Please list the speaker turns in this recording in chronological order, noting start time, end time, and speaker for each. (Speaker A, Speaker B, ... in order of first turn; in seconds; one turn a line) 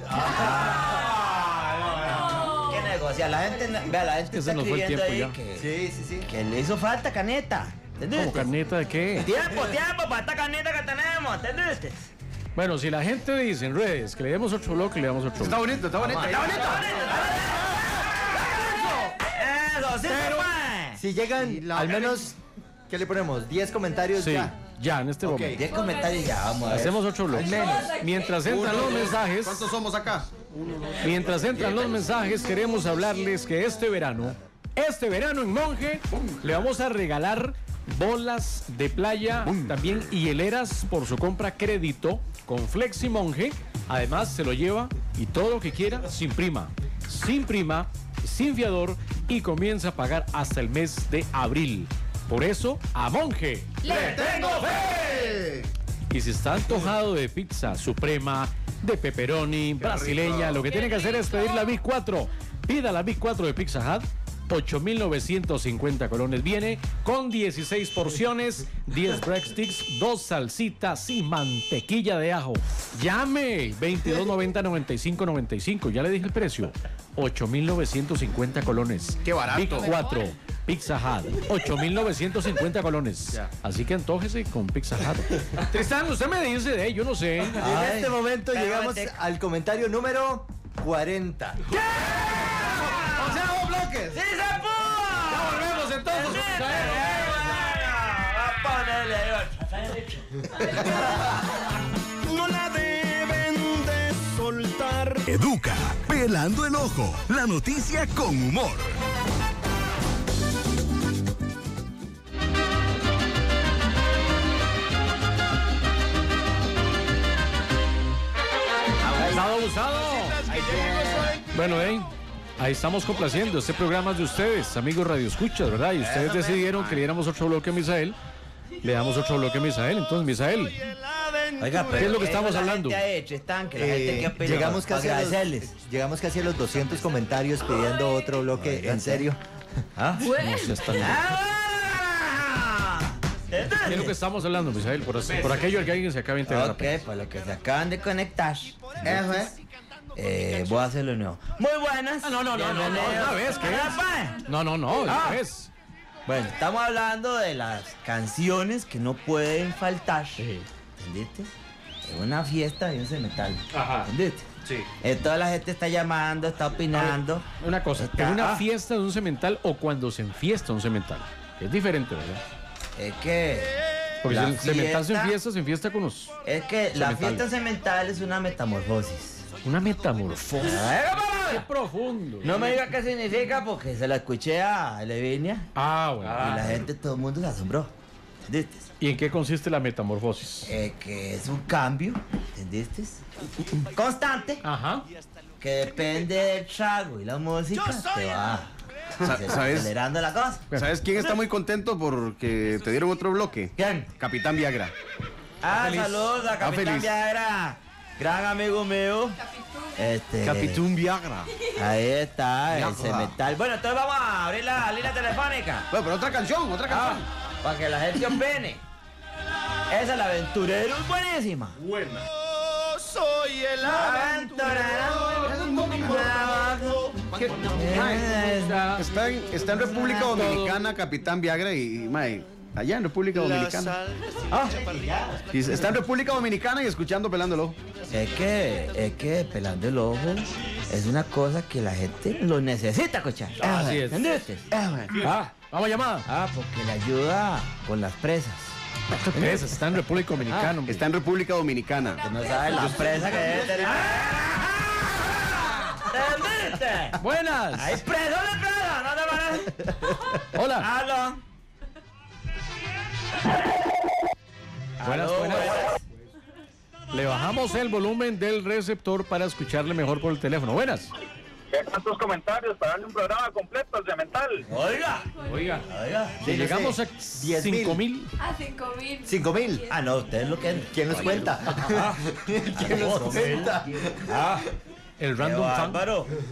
Speaker A: 0.1-5.7
Speaker B: 4.3-5.3
Speaker C: 5.6-6.3
Speaker A: 6.3-8.5
Speaker B: 8.1-9.3
Speaker A: 9.2-12.1
Speaker B: 12.6-15.8
Speaker D: 15.4-17.0
Speaker A: 16.0-18.5
Speaker A: 19.3-21.0
Speaker C: 21.0-22.4
Speaker D: 21.4-22.3
Speaker C: 22.9-24.5
Speaker B: 24.2-25.6
Speaker A: 25.6-27.1
Speaker B: 26.7-29.7
Speaker C: 27.3-28.0
Speaker D: 28.4-32.1
Speaker B: 31.0-54.0
Speaker D: 36.1-36.4
Speaker D: 39.5-39.7
Speaker D: 53.9-55.7
Speaker A: 53.9-54.7
Speaker B: 56.1-87.6
Speaker D: 59.8-60.8
Speaker E: 60.8-61.7
Speaker D: 79.2-80.0
Speaker A: 87.6-89.1
Speaker C: 87.6-91.6
Speaker A: 91.7-93.4
Speaker D: 93.2-94.1
Speaker A: 94.1-101.0
Speaker B: 95.3-97.3
Speaker D: 103.5-103.8
Speaker F: 105.2-109.0
Speaker A: 119.0-119.5
Speaker B: 119.2-120.4
Speaker D: 120.5-121.3
Speaker A: 120.5-121.3
Speaker B: 121.5-128.2
Speaker A: 126.0-127.0
Speaker B: 128.8-130.8
Speaker A: 131.6-135.7
Speaker B: 131.9-133.0
Speaker D: 133.8-134.3
Speaker C: 134.2-139.4
Speaker A: 138.8-139.2
Speaker A: 140.0-140.3
Speaker E: 140.2-140.8
Speaker B: 140.2-141.2
Speaker A: 140.9-144.2
Speaker B: 143.8-146.9
Speaker A: 146.5-149.5
Speaker D: 149.0-149.5
Speaker A: 150.2-154.4
Speaker B: 152.2-155.7
Speaker A: 155.0-155.4
Speaker A: 156.3-160.4
Speaker B: 160.4-160.7
Speaker A: 161.0-161.5
Speaker A: 162.1-164.5
Speaker B: 163.7-164.1
Speaker A: 165.0-168.7
Speaker B: 166.9-172.4
Speaker A: 173.0-173.7
Speaker B: 174.2-176.3
Speaker A: 174.2-175.3
Speaker A: 176.5-179.5
Speaker B: 176.9-177.4
Speaker B: 179.6-180.9
Speaker A: 180.6-181.7
Speaker B: 181.5-182.6
Speaker A: 182.4-185.7
Speaker B: 185.8-186.8
Speaker A: 186.2-187.9
Speaker A: 188.5-188.9
Speaker B: 189.0-190.7
Speaker A: 190.7-193.2
Speaker A: 193.9-194.6
Speaker B: 194.6-195.1
Speaker A: 195.6-198.7
Speaker D: 199.2-199.9
Speaker A: 199.2-200.7
Speaker D: 200.7-204.9
Speaker A: 203.8-204.1
Speaker A: 205.6-209.4
Speaker B: 205.8-206.2
Speaker D: 206.6-207.1
Speaker E: 209.5-210.0
Speaker A: 210.0-210.9
Speaker D: 210.4-211.5
Speaker A: 211.7-215.9
Speaker D: 212.7-213.3
Speaker D: 215.9-217.2
Speaker A: 216.9-218.8
Speaker A: 219.9-221.8
Speaker B: 221.8-222.2
Speaker A: 223.8-227.2
Speaker D: 225.7-226.0
Speaker D: 227.3-228.4
Speaker A: 227.7-228.9
Speaker B: 228.4-229.1
Speaker D: 229.0-234.0
Speaker B: 230.1-230.8
Speaker A: 234.5-234.9
Speaker C: 234.8-235.5
Speaker D: 235.5-237.8
Speaker A: 238.1-244.7
Speaker B: 243.6-244.2
Speaker D: 244.7-245.3
Speaker B: 245.2-246.3
Speaker A: 246.3-248.7
Speaker B: 249.2-251.0
Speaker A: 250.5-250.8
Speaker D: 250.9-253.9
Speaker A: 252.2-257.2
Speaker B: 257.2-258.0
Speaker A: 257.8-261.4
Speaker B: 260.5-260.9
Speaker A: 265.0-266.0
Speaker B: 265.0-265.8
Speaker B: 267.1-271.1
Speaker G: 271.7-274.7
Speaker A: 274.7-275.3
Speaker B: 275.4-275.9
Speaker A: 275.8-276.5
Speaker C: 276.4-278.0
Speaker B: 276.4-278.3
Speaker E: 278.4-279.9
Speaker C: 279.2-279.9
Speaker A: 279.9-281.2
Speaker C: 280.9-284.2
Speaker B: 281.1-281.8
Speaker A: 281.8-284.7
Speaker D: 282.8-283.6
Speaker B: 285.2-286.0
Speaker A: 285.4-286.3